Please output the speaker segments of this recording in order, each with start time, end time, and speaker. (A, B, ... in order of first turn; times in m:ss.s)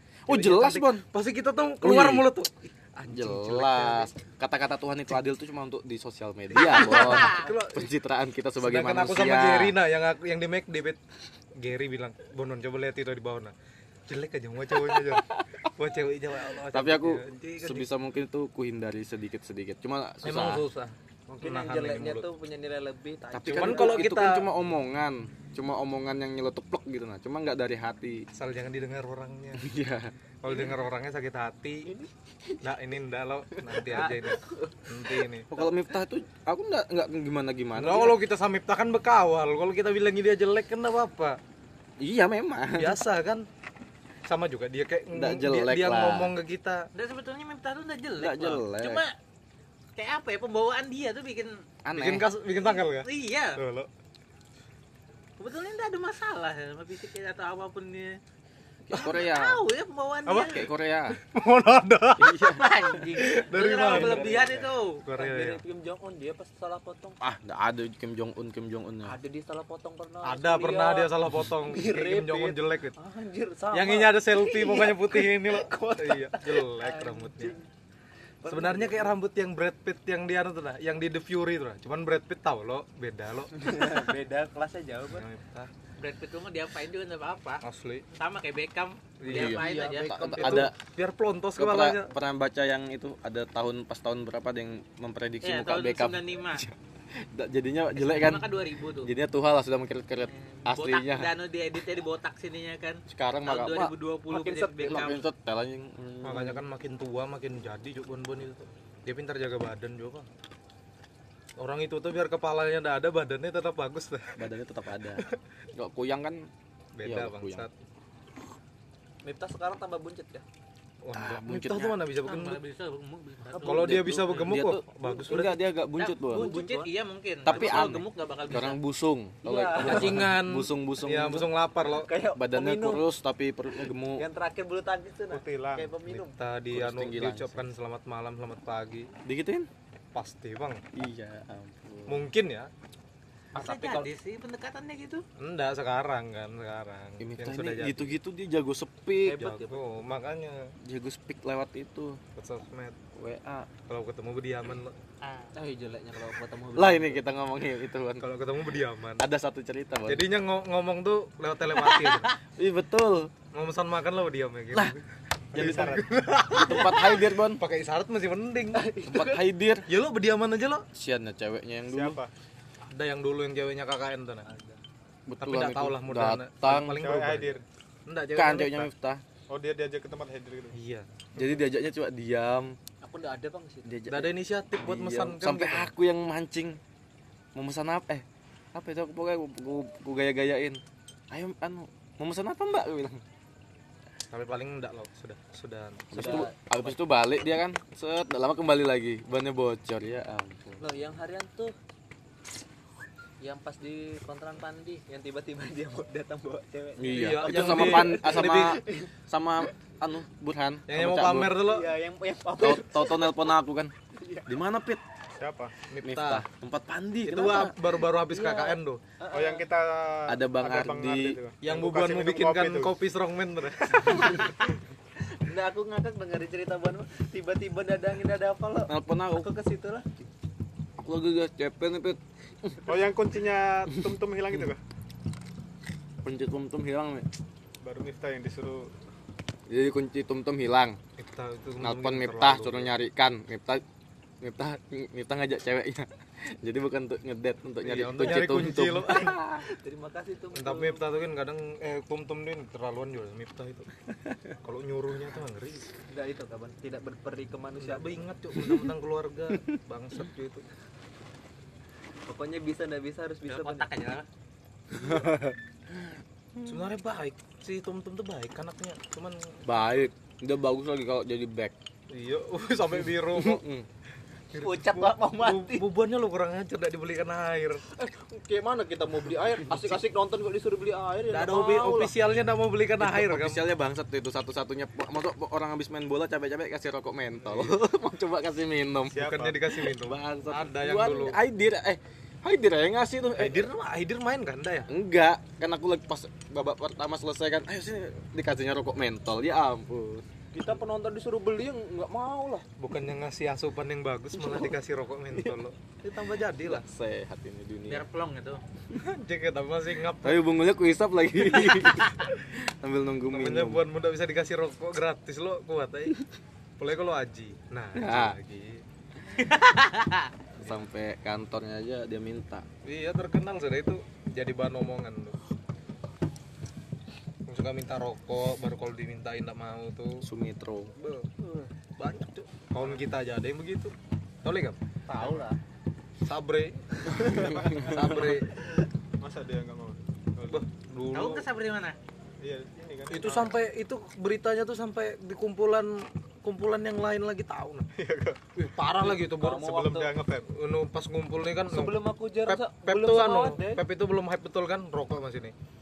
0:00.2-0:01.0 A
0:00.3-0:04.1 B
0:01.8-0:02.3 A
0:03.1-0:09.8 A
0:06.6-0:07.9 B
0:06.7-0:07.4 C
0:08.6-0:11.0 B
0:11.6-0:13.5 B
0:14.1-0:17.9 B
0:16.5-0:20.6 A
0:20.2-0:22.3 B
0:21.3-0:24.1 D
0:23.3-0:28.2 A
0:23.4-0:24.5 B
0:28.3-0:29.7 B
0:29.6-0:30.1 A
0:30.4-0:31.9 B
0:31.8-0:32.6 D
0:32.6-0:35.5 B
0:33.6-0:34.7 D
0:35.5-0:38.2 A
0:37.8-0:41.4 B
0:42.0-0:43.0 A
0:42.8-0:43.4 B
0:44.3-0:46.9 B
0:45.1-0:46.3 A
0:46.9-0:49.1 C
0:48.2-0:49.0 A
0:50.0-0:51.5 C
0:51.8-0:52.3 A
0:51.9-0:53.9 B
0:52.4-0:53.6 C
0:55.4-0:58.2 C
0:58.9-0:59.6 A
0:59.0-1:00.7 C
1:00.3-1:01.2 A
1:01.2-1:02.4 B
1:02.2-1:02.7 A
1:02.4-1:05.0 C
1:03.1-1:04.5 B
1:03.5-1:07.2 D
1:05.0-1:05.6 B
1:07.2-1:09.2 A
1:09.0-1:17.7 D
1:10.2-1:13.0 B
1:13.7-1:17.6 B
1:18.4-1:19.1 D
1:18.5-1:24.0 B
1:23.5-1:25.2 D
1:25.1-1:25.7 B
1:26.0-1:30.6 C
1:27.6-1:28.0 B
1:29.2-1:32.1 B
1:29.3-1:30.7 A
1:31.6-1:38.5 A
1:35.4-1:36.6 C
1:37.9-1:39.1 C
1:39.0-1:41.3 A
1:40.3-1:45.2 C
1:43.1-1:43.9 A
1:44.3-1:45.2 D
1:44.8-1:46.6 A
1:46.2-1:50.3 B
1:51.6-1:54.4 B
1:54.4-1:55.2 A
1:55.8-1:56.5 A
1:57.0-1:57.7 B
1:57.0-1:57.7 A
1:59.2-2:00.4 D
2:01.0-2:02.6 B
2:01.1-2:01.9 A
2:02.2-2:04.3 C
2:03.5-2:03.9 D
2:03.6-2:05.6 B
2:03.7-2:06.5 A
2:06.0-2:08.8 C
2:06.3-2:06.9 D
2:07.4-2:11.5 A
2:07.5-2:07.9 B
2:09.4-2:10.3 D
2:09.8-2:12.1 B
2:11.8-2:13.0 D
2:12.4-2:14.2 A
2:14.2-2:16.3 D
2:15.3-2:15.9 E
2:16.0-2:19.1 B
2:16.7-2:17.6 A
2:19.2-2:19.7 A
2:20.1-2:20.8 B
2:20.9-2:22.3 A
2:22.1-2:22.7 B
2:23.5-2:24.1 B
2:23.5-2:25.2 C
2:25.4-2:28.1 B
2:27.2-2:29.4 A
2:29.2-2:29.8 D
2:29.4-2:30.7 B
2:30.8-2:32.2 A
2:32.4-2:33.0 B
2:33.1-2:33.7 A
2:33.9-2:34.9 B
2:35.2-2:35.5 C
2:35.5-2:37.2 D
2:36.7-2:38.2 A
2:38.2-2:39.2 B
2:39.2-2:40.3 A
2:40.1-2:42.4 B
2:42.5-2:43.3 A
2:43.5-2:48.9 B
2:45.5-2:46.0 A
2:45.5-2:46.1 E
2:46.5-2:47.6 A
2:48.7-2:49.4 D
2:49.0-2:49.8 A
2:49.9-2:50.8 B
2:50.9-2:52.2 A
2:51.9-2:52.3 E
2:52.9-2:54.5 B
2:54.4-2:54.8 D
2:55.3-2:57.1 A
2:55.4-2:58.9 B
2:57.0-2:57.6 E
2:58.3-2:59.2 A
2:59.5-3:00.7 E
3:00.7-3:01.0 B
3:01.4-3:02.8 A
3:03.0-3:03.9 D
3:03.8-3:06.8 A
3:04.1-3:05.9 B
3:07.5-3:13.2 A
3:14.3-3:16.4 B
3:16.1-3:20.8 A
3:16.1-3:16.9 D
3:20.8-3:21.7 D
3:23.4-3:29.1 D
3:27.0-3:31.6 A
3:27.1-3:28.8 B
3:30.9-3:31.9 B
3:31.6-3:33.5 D
3:32.6-3:33.9 A
3:34.1-3:34.5 D
3:34.4-3:35.0 A
3:35.4-3:35.7 E
3:35.9-3:36.4 B
3:36.0-3:37.8 A
3:37.2-3:39.0 B
3:38.2-3:39.7 D
3:39.3-3:42.9 E
3:40.3-3:41.4 A
3:41.6-3:44.5 B
3:45.3-3:50.1 D
3:48.9-3:49.5 A
3:51.0-3:52.8 A
3:52.8-3:54.8 E
3:56.2-3:57.2 A
3:57.8-3:58.9 E
3:59.7-4:01.0 A
4:01.2-4:02.9 B
4:01.8-4:03.8 A
4:04.4-4:09.6 A
4:07.8-4:09.4 B
4:09.2-4:11.0 D
4:10.5-4:13.9 B
4:14.6-4:15.9 B
4:16.1-4:18.2 D
4:17.8-4:20.6 B
4:22.2-4:23.9 D
4:23.5-4:24.2 C
4:25.0-4:25.3 B
4:25.0-4:25.4 A
4:26.6-4:29.6 B
4:29.6-4:31.7 A
4:32.1-4:33.6 B
4:33.3-4:33.9 A
4:34.5-4:35.9 D
4:34.5-4:37.8 B
4:37.9-4:42.1 D
4:41.3-4:43.6 B
4:43.0-4:49.2 A
4:47.4-4:47.8 B
4:49.1-4:49.6 E
4:49.1-4:51.4 B
4:49.8-4:53.7 A
4:53.4-4:54.9 B
4:54.9-5:00.3 A
5:00.5-5:02.6 D
5:02.8-5:06.8 B
5:04.4-5:04.7 A
5:06.6-5:08.0 A
5:07.9-5:08.6 C
5:08.9-5:10.5 B
5:10.2-5:13.8 A
5:13.3-5:16.2 B
5:16.8-5:18.8 B
5:17.9-5:18.4 A
5:19.4-5:20.3 C
5:20.6-5:22.6 A
5:22.8-5:25.4 B
5:27.5-5:30.2 B
5:30.2-5:30.9 A
5:31.0-5:31.3 B
5:31.4-5:31.8 D
5:32.0-5:34.8 B
5:35.1-5:35.6 D
5:36.2-5:38.6 B
5:37.1-5:38.4 D
5:37.5-5:38.3 E
5:39.2-5:40.6 E
5:40.4-5:41.4 B
5:41.1-5:42.0 C
5:42.4-5:43.6 E
5:43.1-5:47.9 B
5:48.0-5:48.4 E
5:48.6-5:49.8 B
5:49.0-5:50.2 D
5:49.6-5:50.5 E
5:50.5-5:55.5 B
5:51.7-5:53.8 D